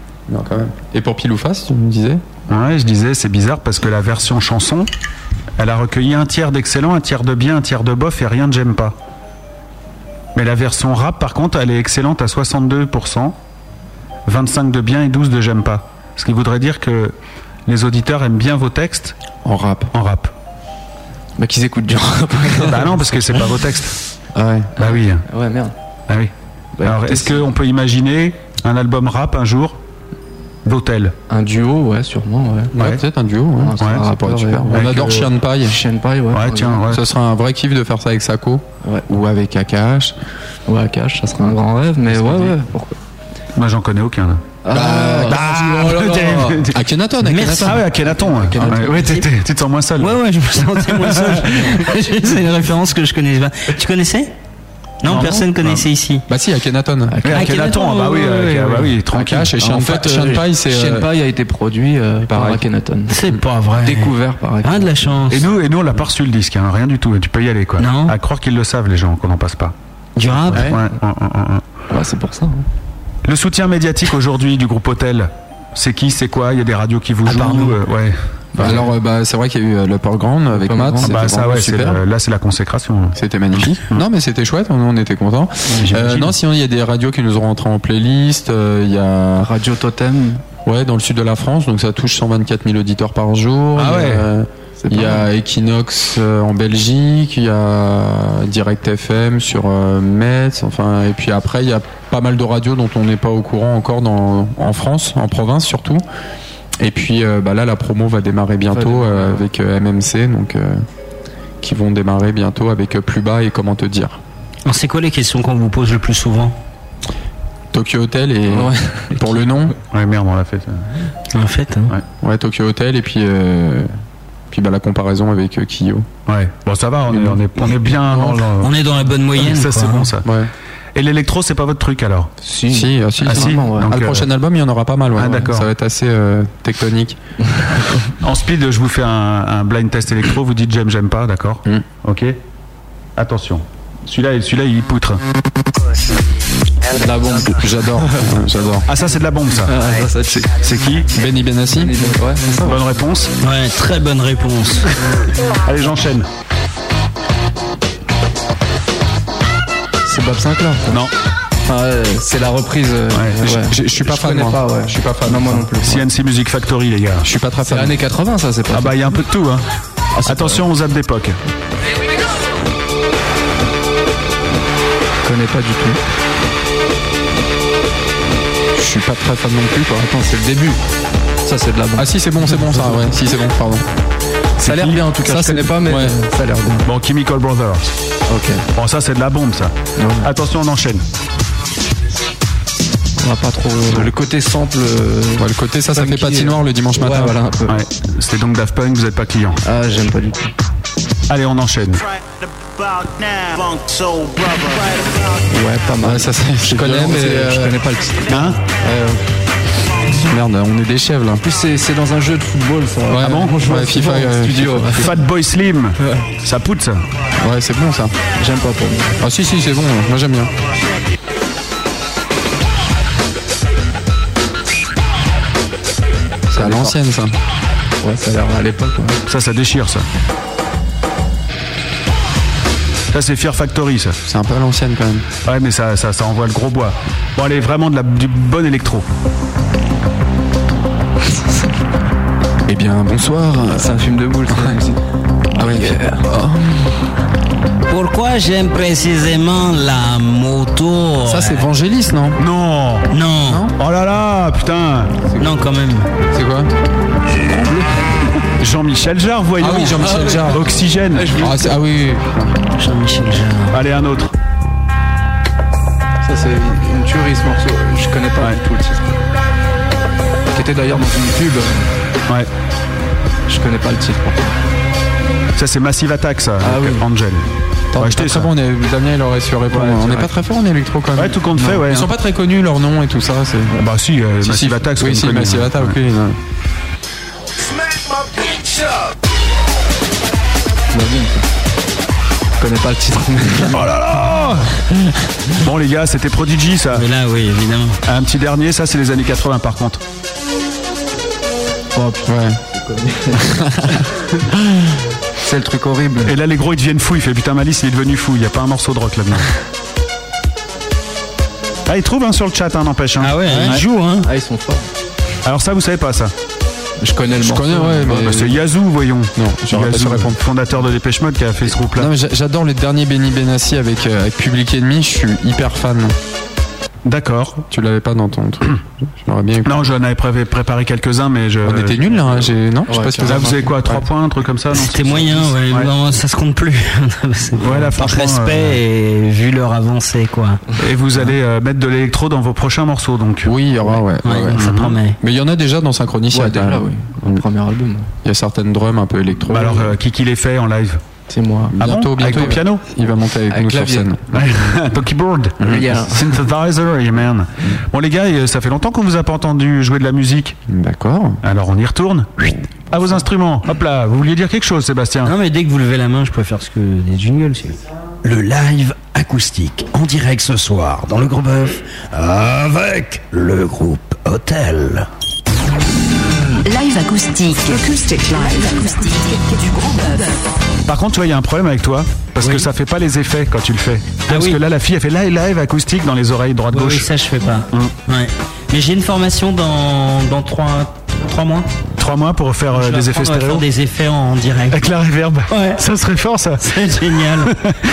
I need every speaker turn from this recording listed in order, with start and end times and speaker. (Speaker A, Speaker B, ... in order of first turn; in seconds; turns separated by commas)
Speaker A: 0.3-2.2, Speaker B: 2.5-4.9, Speaker B: 5.6-9.0, Speaker B: 10.3-13.4, Speaker B: 14.3-17.1, Speaker B: 17.7-19.2, Speaker A: 19.4-19.9, Speaker B: 19.9-20.3, Speaker C: 21.4-23.2, Speaker B: 22.6-24.0, Speaker A: 24.4-24.7, Speaker B: 24.8-25.3, Speaker C: 24.8-25.7, Speaker C: 26.8-27.4, Speaker B: 26.8-29.8, Speaker B: 30.6-31.1, Speaker C: 31.3-32.7, Speaker A: 32.7-35.8, Speaker C: 33.6-34.9, Speaker B: 34.7-35.3, Speaker C: 35.7-36.9, Speaker B: 36.3-37.0, Speaker A: 36.9-40.2, Speaker C: 40.7-43.0, Speaker B: 43.6-44.5, Speaker C: 44.6-46.4, Speaker A: 44.7-47.9, Speaker B: 45.3-46.8, Speaker D: 47.2-47.9, Speaker B: 47.4-50.2, Speaker C: 48.2-49.2, Speaker A: 48.6-49.0, Speaker D: 49.0-49.2, Speaker D: 50.0-54.3, Speaker B: 50.9-51.7, Speaker D: 55.0-56.3, Speaker B: 55.0-55.9, Speaker A: 56.3-57.2, Speaker C: 57.1-57.5, Speaker B: 57.3-59.5, Speaker D: 57.3-59.0, Speaker A: 59.1-61.1, Speaker C: 59.6-63.2, Speaker A: 62.3-62.6, Speaker D: 63.1-65.5, Speaker C: 63.8-64.9, Speaker B: 65.3-69.8, Speaker D: 67.8-68.2, Speaker D: 70.2-70.7, Speaker B: 70.5-71.7, Speaker A: 70.5-70.8, Speaker C: 71.9-72.7, Speaker B: 73.2-78.9, Speaker D: 77.3-77.8, Speaker A: 78.6-82.0, Speaker C: 80.5-81.1, Speaker B: 81.0-84.0, Speaker A: 83.2-89.5, Speaker B: 85.7-86.4, Speaker C: 89.4-90.4, Speaker A: 90.6-106.0, Speaker B: 93.8-94.3, Speaker C: 94.8-95.3, Speaker A: 106.8-110.8, Speaker C: 108.7-109.4, Speaker A: 111.6-114.2, Speaker D: 114.7-116.5, Speaker A: 117.7-119.8, Speaker C: 118.5-119.3, Speaker B: 119.9-120.9, Speaker D: 121.3-122.0, Speaker A: 122.2-123.9, Speaker A: 124.5-126.1, Speaker B: 126.3-128.8, Speaker A: 127.1-128.5, Speaker D: 128.6-130.1, Speaker B: 129.3-130.2, Speaker A: 130.2-130.5, Speaker B: 130.9-132.3, Speaker C: 132.4-133.9, Speaker A: 132.7-137.2, Speaker B: 133.2-134.3, Speaker B: 135.2-135.7, Speaker B: 138.2-142.4, Speaker B: 143.2-145.2, Speaker C: 146.9-148.3, Speaker A: 147.6-148.9, Speaker B: 148.9-149.7, Speaker C: 149.6-150.5, Speaker B: 150.3-151.1, Speaker A: 151.1-152.0, Speaker C: 151.7-152.8, Speaker B: 152.6-153.3, Speaker D: 153.4-154.8, Speaker B: 155.7-156.3, Speaker C: 160.1-161.0, Speaker C: 161.7-166.0, Speaker B: 163.1-163.4, Speaker A: 163.4-165.9, Speaker B: 165.8-167.3, Speaker A: 167.2-168.0, Speaker C: 167.6-169.0, Speaker B: 168.7-169.6, Speaker C: 170.2-170.6, Speaker B: 170.2-171.4, Speaker C: 175.2-176.0, Speaker A: 178.7-180.8, Speaker C: 181.4-183.1, Speaker A: 182.0-183.9, Speaker B: 184.6-185.0, Speaker C: 184.6-186.9, Speaker A: 185.2-186.2, Speaker B: 186.9-187.9, Speaker C: 188.3-188.7, Speaker B: 188.8-191.0, Speaker C: 190.0-190.3, Speaker C: 193.2-197.8, Speaker A: 195.4-197.3, Speaker B: 197.7-199.6, Speaker C: 199.6-200.5, Speaker B: 201.3-202.1, Speaker B: 202.9-204.9, Speaker C: 205.5-209.2, Speaker A: 206.0-207.8, Speaker B: 208.3-208.6, Speaker A: 210.2-211.4, Speaker C: 211.4-215.2, Speaker A: 213.1-215.1, Speaker B: 213.2-213.6, Speaker B: 215.0-217.0, Speaker C: 216.0-216.3, Speaker A: 217.4-218.1, Speaker C: 218.4-219.2, Speaker A: 219.2-220.5, Speaker C: 226.5-226.9, Speaker A: 226.6-227.3, Speaker C: 228.0-229.2, Speaker B: 229.3-230.1, Speaker B: 233.1-234.2, Speaker A: 234.2-235.3, Speaker B: 235.4-239.1, Speaker C: 241.2-241.7, Speaker A: 242.7-244.0, Speaker C: 243.7-245.0, Speaker C: 245.6-246.2, Speaker A: 245.6-247.0, Speaker D: 247.9-251.7, Speaker A: 251.2-252.4, Speaker B: 252.4-253.1, Speaker D: 253.1-253.7, Speaker A: 253.4-253.8, Speaker B: 253.7-255.2, Speaker A: 255.4-255.7, Speaker D: 255.4-256.1, Speaker A: 256.3-256.7, Speaker C: 257.5-257.9, Speaker B: 258.6-261.4, Speaker A: 259.6-260.7, Speaker C: 260.1-260.6, Speaker C: 261.1-261.7, Speaker A: 261.4-262.6, Speaker D: 262.8-263.8, Speaker B: 263.7-264.3, Speaker C: 266.2-269.2, Speaker C: 270.5-271.9, Speaker C: 273.5-274.5, Speaker B: 275.6-278.5, Speaker C: 276.6-277.1, Speaker A: 277.9-283.8, Speaker B: 281.2-282.1, Speaker B: 283.8-286.0, Speaker A: 284.4-286.4, Speaker C: 290.9-291.4, Speaker C: 292.6-293.8, Speaker B: 293.7-294.9, Speaker B: 295.6-297.1, Speaker D: 296.9-298.0, Speaker B: 298.1-300.0, Speaker C: 301.9-304.0, Speaker A: 302.3-302.6, Speaker A: 303.5-304.0, Speaker C: 305.4-306.3, Speaker B: 306.2-309.5, Speaker B: 311.9-313.8, Speaker D: 313.2-314.3, Speaker C: 314.2-314.9, Speaker B: 315.4-316.3, Speaker C: 317.0-318.6, Speaker A: 317.4-318.5, Speaker B: 318.1-322.1, Speaker A: 319.4-320.4, Speaker A: 321.8-326.2, Speaker B: 327.1-327.6, Speaker A: 327.7-329.8, Speaker B: 329.6-332.1, Speaker A: 331.6-333.6, Speaker C: 332.9-334.1, Speaker B: 333.3-335.9, Speaker D: 334.8-340.6, Speaker B: 337.6-338.8, Speaker B: 340.8-343.5, Speaker A: 343.4-344.6, Speaker D: 344.2-345.2, Speaker B: 344.5-345.0, Speaker A: 345.2-347.4, Speaker C: 346.3-348.1, Speaker A: 348.2-349.9, Speaker B: 349.5-351.0, Speaker C: 351.3-352.5, Speaker A: 351.7-354.4, Speaker B: 351.8-352.9, Speaker C: 353.5-354.1, Speaker B: 354.3-360.6, Speaker C: 355.6-356.4, Speaker C: 360.7-361.3, Speaker B: 361.4-365.3, Speaker D: 365.2-367.8, Speaker E: 368.2-375.1, Speaker F: 376.6-380.4, Speaker B: 380.9-387.1, Speaker D: 382.4-382.7, Speaker D: 384.3-384.6, Speaker D: 386.7-391.7, Speaker B: 392.0-393.7, Speaker D: 392.7-394.8, Speaker B: 394.7-396.6, Speaker D: 395.5-395.8, Speaker D: 396.6-397.5, Speaker B: 397.4-397.7